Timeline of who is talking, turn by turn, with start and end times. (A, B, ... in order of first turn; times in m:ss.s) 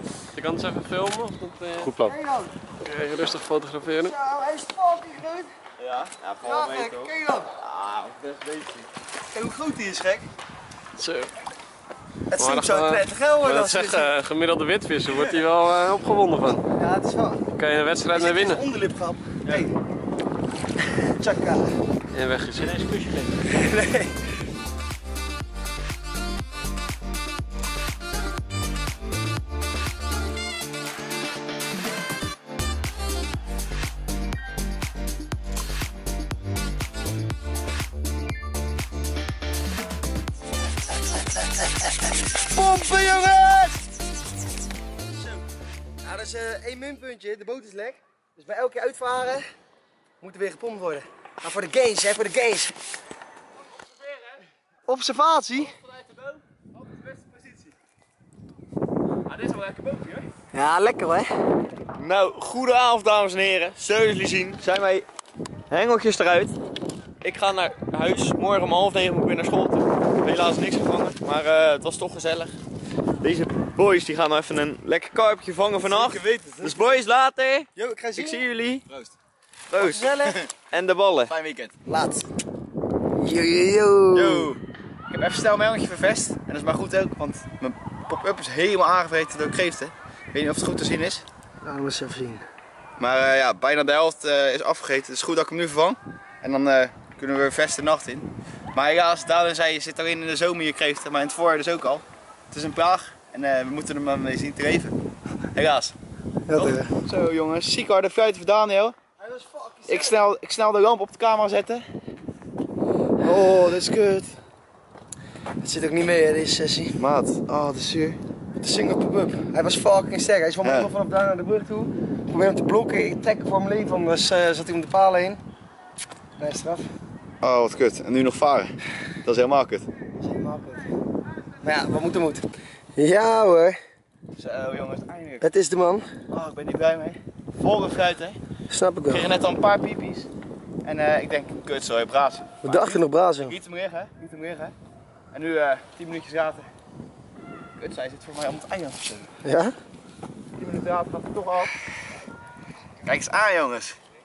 0:00.4-0:02.2 A
0:01.8-0:02.5 B
0:02.8-0:04.2 A
0:04.0-0:05.5 B
0:05.8-0:07.1 C
0:06.4-0:07.5 B
0:06.7-0:07.0 D
0:07.6-0:08.9 D
0:09.3-0:10.3 B
0:11.0-0:11.3 A
0:12.3-0:14.2 B
0:12.4-0:16.6 A
0:16.7-0:17.5 B
0:17.6-0:18.6 A
0:18.1-0:19.7 B
0:21.1-0:21.7 B
0:22.1-0:23.3 A
0:22.6-0:23.0 D
0:23.5-0:24.2 B
0:42.4-0:43.9 B
0:46.0-0:49.5 B
0:50.2-0:52.7 B
0:54.9-0:55.8 B
0:55.9-0:56.3 C
0:59.3-1:00.2 C
1:00.5-1:01.3 B
1:01.9-1:05.0 D
1:05.7-1:06.6 D
1:07.2-1:12.5 D
1:13.2-1:18.8 D
1:15.8-1:17.0 C
1:17.8-1:18.4 B
1:19.7-1:21.3 D
1:19.8-1:20.4 B
1:21.3-1:21.7 C
1:21.8-1:22.3 B
1:23.2-1:24.5 B
1:24.1-1:31.2 C
1:31.6-1:32.4 B
1:33.0-1:45.0 C
1:45.5-1:45.9 C
1:46.5-1:46.9 B
1:46.5-1:49.0 C
1:49.2-1:50.2 B
1:49.9-1:51.8 C
1:53.2-1:54.3 C
1:55.6-1:57.0 B
1:57.0-1:58.2 C
1:58.6-2:05.4 B
2:00.6-2:00.9 C
2:06.4-2:06.9 B
2:07.4-2:08.7 C
2:09.2-2:09.9 C
2:10.2-2:10.9 B
2:11.6-2:12.4 B
2:13.0-2:13.8 B
2:14.4-2:15.4 C
2:15.4-2:16.1 B
2:16.3-2:18.4 C
2:18.7-2:19.4 B
2:19.1-2:20.3 C
2:20.8-2:24.7 C
2:22.6-2:23.6 B
2:25.3-2:26.7 C
2:27.8-2:29.3 C
2:29.4-2:29.7 B
2:30.6-2:31.7 C
2:33.0-2:34.0 C